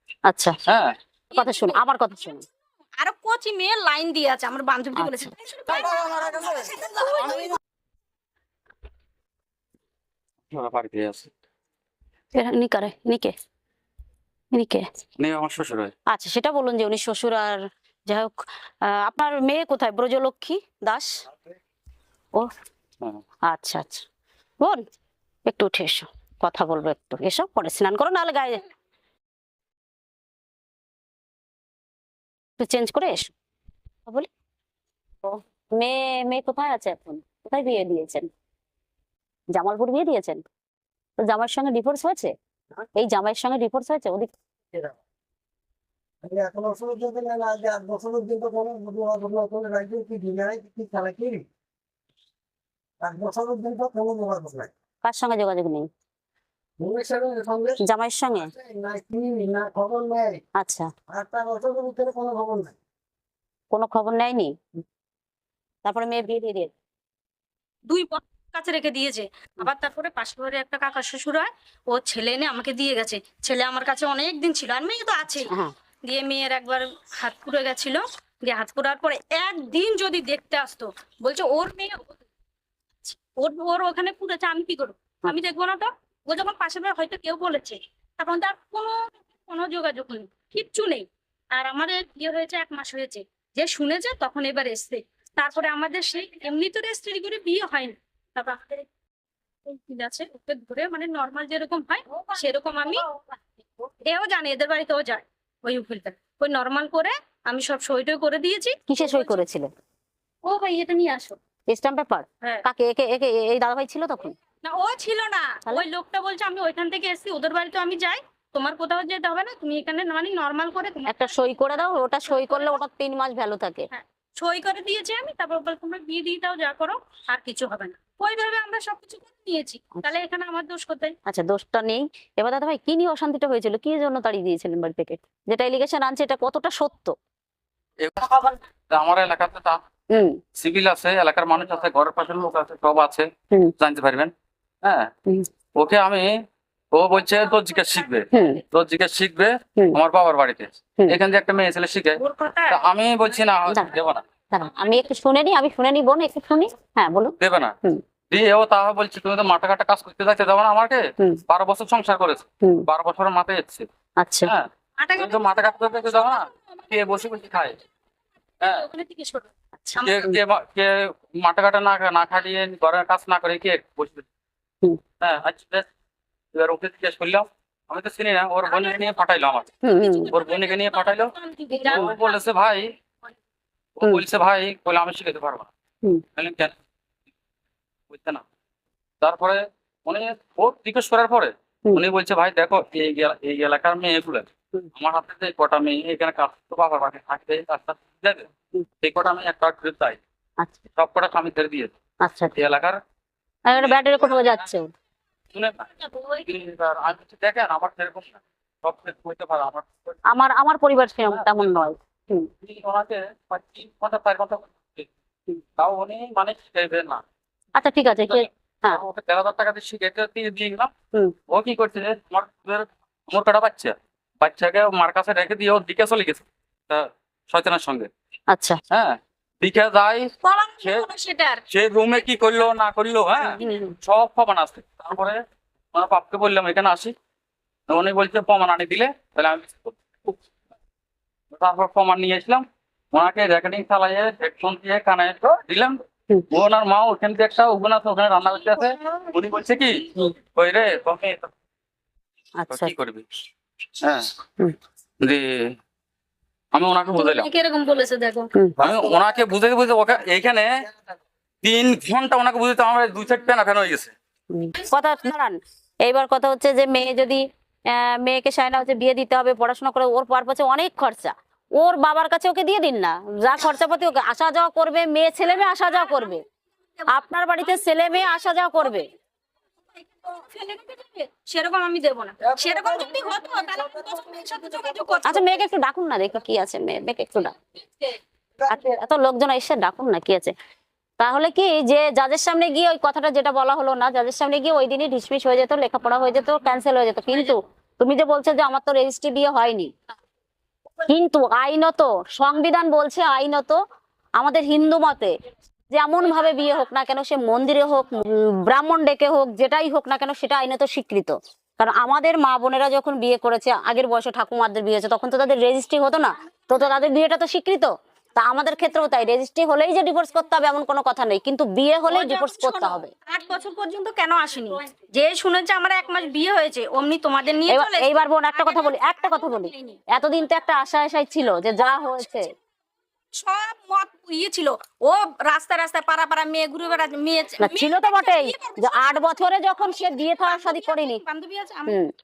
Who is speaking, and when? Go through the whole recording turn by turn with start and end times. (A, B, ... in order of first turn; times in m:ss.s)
0:00.3-0:00.6 A
0:01.3-0:01.8 B
0:01.3-0:02.4 A
0:03.0-0:07.6 B
0:05.0-0:05.3 A
0:05.9-0:06.2 A
0:10.5-0:11.3 C
0:12.3-0:13.3 A
0:14.5-0:14.9 A
0:15.2-0:15.9 C
0:16.1-0:21.2 A
0:23.5-0:24.0 A
0:25.5-0:28.6 A
0:32.6-0:33.3 A
0:35.2-0:38.3 A
0:39.5-0:40.4 A
0:41.2-0:42.3 A
0:43.0-0:44.3 A
0:46.2-0:51.4 D
0:53.0-0:54.7 D
0:55.0-0:55.9 A
0:56.8-0:57.8 D
0:57.8-0:58.5 A
0:58.4-1:00.4 D
1:00.6-1:00.9 A
1:01.1-1:02.8 D
1:03.7-1:04.5 A
1:05.8-1:06.7 A
1:07.9-1:15.5 B
1:15.5-1:15.7 A
1:16.0-1:22.2 B
1:23.1-1:38.8 B
1:39.7-1:43.1 B
1:44.0-1:49.4 B
1:48.9-1:49.7 A
1:50.4-1:51.4 B
1:51.7-1:54.4 A
1:54.6-2:02.8 B
2:01.1-2:03.9 A
2:03.9-2:11.2 B
2:11.3-2:17.1 A
2:18.0-2:19.8 C
2:20.1-2:20.4 A
2:20.6-2:23.3 C
2:23.8-2:24.3 C
2:24.8-2:25.1 C
2:25.8-2:26.3 C
2:26.9-2:34.2 C
2:28.3-2:28.6 A
2:32.2-2:32.8 B
2:34.5-2:38.0 A
2:37.4-2:37.8 C
2:38.3-2:43.9 C
2:44.2-2:44.5 A
2:44.5-2:47.8 C
2:45.0-2:46.8 B
2:48.6-2:50.2 B
2:49.8-2:50.4 A
2:50.0-2:54.3 C
2:55.2-2:55.9 C
2:56.5-2:59.7 C
2:58.6-2:59.2 B
2:59.8-3:00.3 A
3:00.0-3:02.8 B
3:00.3-3:01.3 C
3:01.9-3:02.9 C
3:04.0-3:05.7 C
3:06.4-3:06.8 C
3:08.1-3:08.4 C
3:09.2-3:18.5 C
3:19.0-3:20.2 C
3:21.0-3:21.9 C
3:22.2-3:22.6 A
3:22.5-3:23.0 C
3:23.7-3:24.9 A
3:23.8-3:24.7 C
3:25.5-3:30.2 C
3:30.3-3:32.5 A
3:32.6-3:35.1 C
3:35.8-3:37.2 C
3:37.8-3:39.0 A
3:38.3-3:40.9 C
3:41.5-3:48.1 C
3:48.5-3:48.8 A
3:48.9-3:51.1 C
3:50.4-3:51.6 B
3:51.7-3:55.4 C
3:53.6-3:54.0 A
3:55.9-3:57.2 C
3:57.9-4:00.4 C
4:01.5-4:11.5 C
4:12.6-4:12.9 A
4:12.7-4:13.2 C
4:14.0-4:14.3 C
4:15.2-4:15.7 C
4:16.7-4:17.5 C
4:17.2-4:18.5 B
4:18.8-4:20.7 C
4:21.6-4:24.1 C
4:24.5-4:36.4 A
4:36.0-4:36.4 B
4:37.1-4:39.1 A
4:37.6-4:39.1 B
4:40.0-4:45.6 B
4:45.2-4:47.6 A
4:48.7-4:50.5 A
4:51.2-4:59.9 A
5:01.0-5:03.8 A
5:04.4-5:05.3 A
5:05.9-5:23.1 A
5:22.1-5:30.0 B
5:27.7-5:32.5 A
5:33.3-5:42.0 B
5:37.6-5:41.2 A
5:41.9-5:42.1 A